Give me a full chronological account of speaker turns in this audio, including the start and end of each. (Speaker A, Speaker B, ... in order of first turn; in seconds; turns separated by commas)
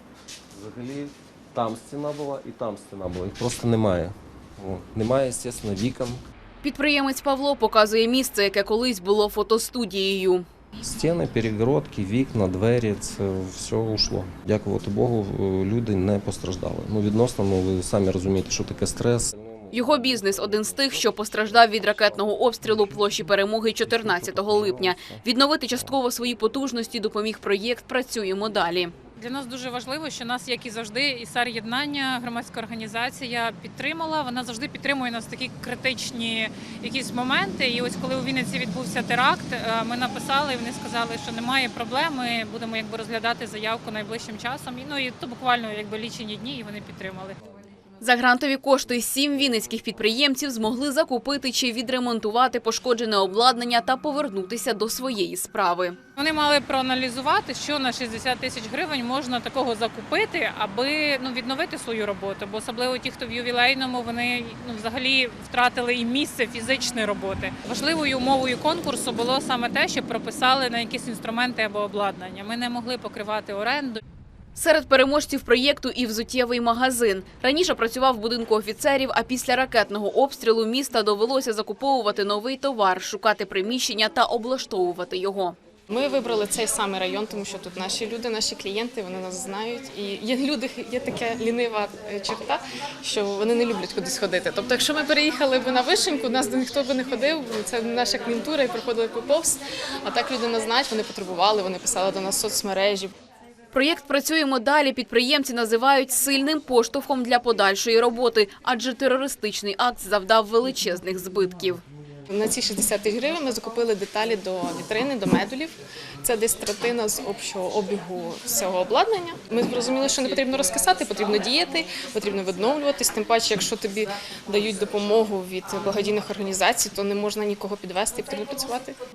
Speaker A: 0.5-6.2, Speaker B: 6.6-10.5, Speaker A: 10.8-22.8, Speaker B: 19.7-28.9, Speaker A: 23.8-25.2, Speaker C: 29.2-47.4, Speaker B: 48.0-56.0, Speaker C: 56.2-74.0, Speaker B: 74.6-85.6, Speaker D: 85.9-103.1, Speaker B: 103.7-111.8, Speaker D: 112.3-128.9